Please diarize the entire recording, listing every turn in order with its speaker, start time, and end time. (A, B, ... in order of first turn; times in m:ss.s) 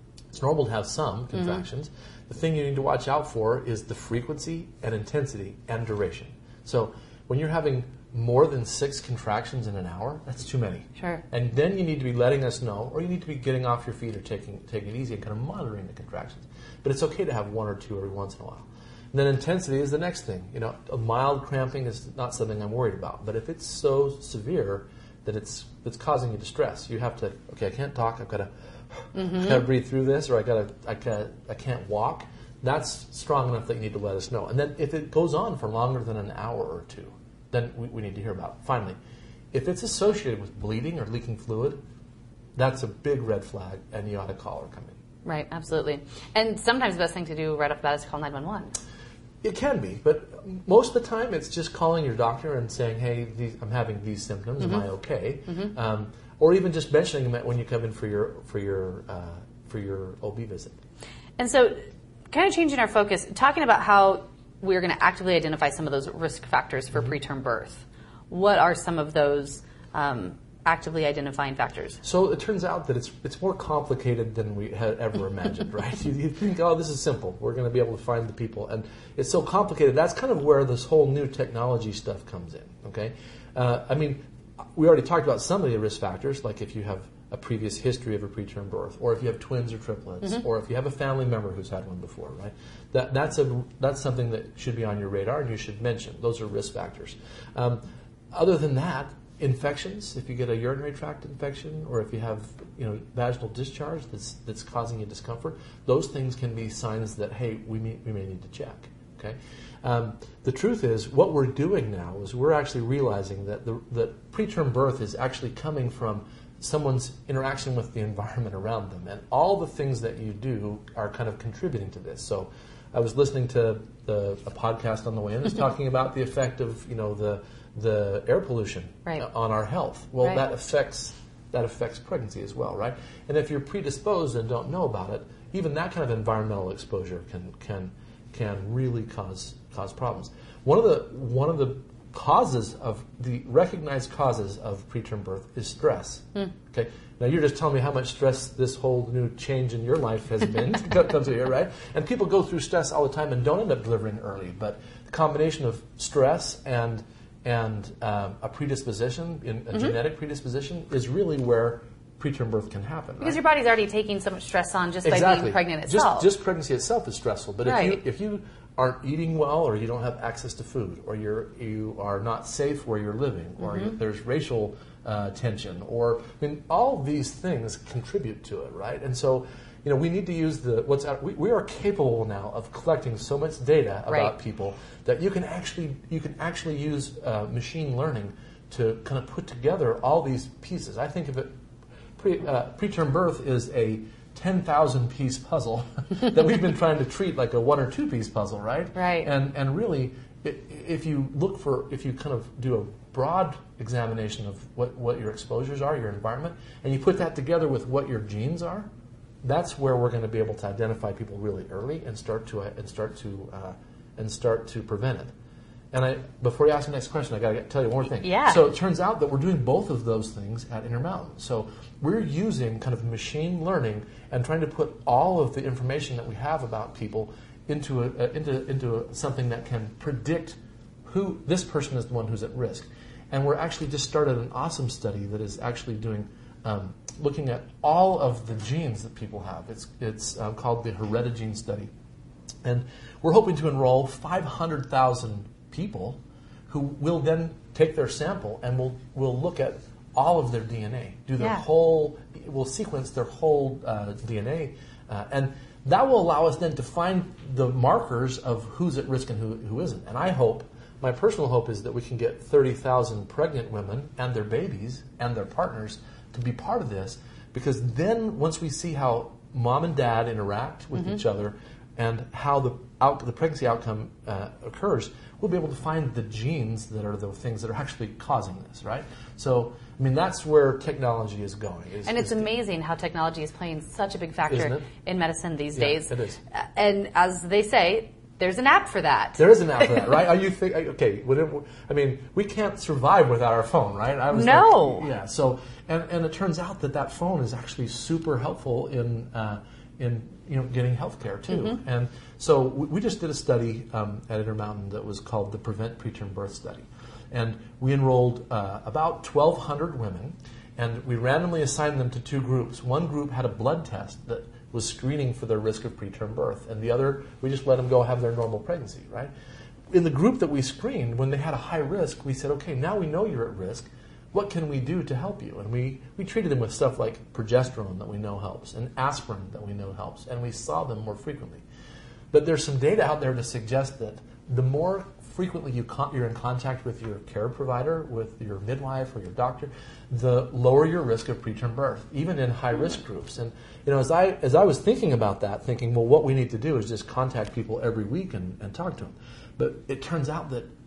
0:00.3-0:28.5 A
0:01.3-0:01.6 B
0:11.0-0:11.2 B
0:29.0-0:39.0 A
0:29.1-0:29.6 B
0:39.5-0:41.8 A
0:42.6-0:45.0 A
0:45.2-0:48.7 B
0:49.4-1:00.7 A
0:54.6-0:54.8 B
0:55.5-0:55.7 B
1:01.4-1:01.8 B
1:02.3-1:12.0 B
1:12.0-1:24.2 A
1:24.7-2:43.4 A
2:39.7-2:40.0 B
2:43.2-2:46.3 B
2:45.0-3:11.5 A
2:47.6-2:48.0 B
2:53.6-2:53.9 B
3:04.1-3:04.4 B
3:12.2-3:28.9 A
3:19.0-3:19.3 B
3:29.4-3:35.3 A
3:35.9-4:01.9 A
3:38.2-3:38.7 B
4:02.6-4:42.5 A
4:11.4-4:11.6 B
4:42.0-4:50.1 B
4:44.5-4:44.8 A
4:45.7-4:46.4 A
4:49.4-5:19.3 A
4:54.3-4:55.1 B
5:01.5-5:01.8 B
5:19.9-5:31.6 A
5:32.3-5:50.7 A